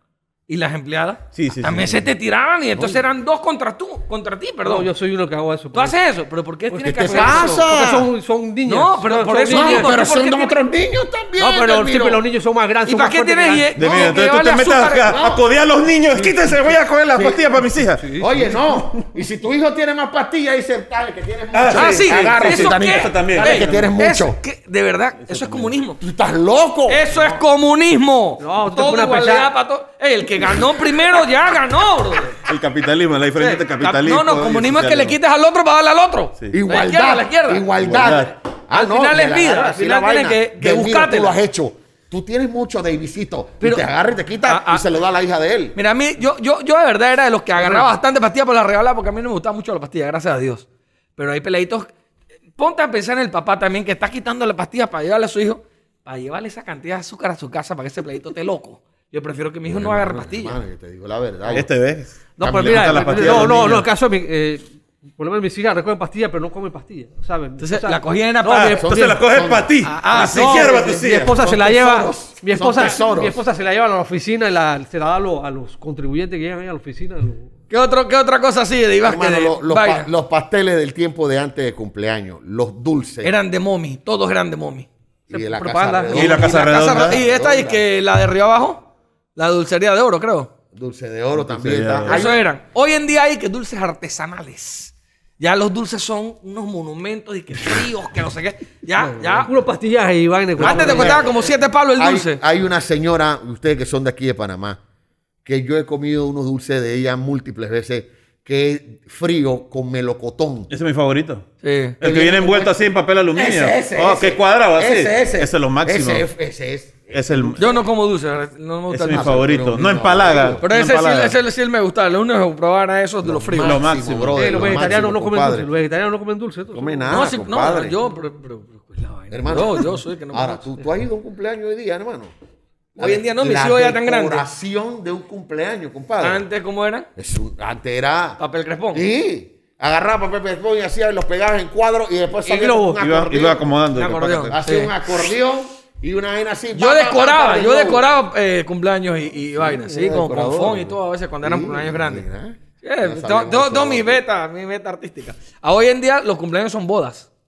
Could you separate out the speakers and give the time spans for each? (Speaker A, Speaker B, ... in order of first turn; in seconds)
Speaker A: 0.5-4.9, 5.7-7.7, 8.7-10.5, 12.9-15.2, 21.7-26.0, 26.9-32.4, 33.4-37.7, 38.7-41.4, 44.5-44.9, 45.8-50.7, 51.2-51.9, 52.6-60.6, 67.6-68.8, 69.8-70.8, 77.7-80.1, 83.2-84.9, 86.1-88.8, 89.4-90.5, 92.1-99.5, 100.6-102.4, 111.6-112.3, 117.6-119.4, 120.6-123.8, 127.1-130.7, 133.0-134.5, 136.2-137.1, 138.4-139.0, 143.9-144.9, 146.7-152.2, 152.8-157.3
Speaker B: 1.4-2.1, 13.8-18.0, 21.5-23.9, 25.3-25.6, 32.5-35.2, 37.8-38.3, 61.5-63.9, 68.5-71.4, 86.1-87.2, 91.3-92.2, 110.7-111.5, 112.0-116.3, 117.1-117.6, 118.9-121.4, 123.6-124.7, 143.0-144.6
Speaker C: 2.7-3.0, 6.8-8.1, 9.5-12.2, 15.1-15.4, 17.1-17.4, 18.2-24.4, 26.0-27.3, 36.5-45.8, 59.7-61.7, 62.4-63.8, 68.8-69.8, 70.8-73.4, 79.0-83.3, 85.3-87.8, 90.7-92.5, 100.6-104.8, 105.5-110.7, 112.0-112.8, 113.3-117.8, 119.0-120.7, 123.2-125.7, 126.7-128.0, 129.3-132.3, 133.0-136.4, 137.2-138.4, 138.9-143.7, 144.5-148.1, 149.4-154.2
Speaker D: 4.6-6.0, 6.7-9.9, 11.4-13.8, 17.9-18.6, 28.4-29.5, 62.4-64.7, 65.2-69.2, 70.1-77.5, 85.3-86.5, 99.0-101.3, 124.3-127.1, 142.5-143.0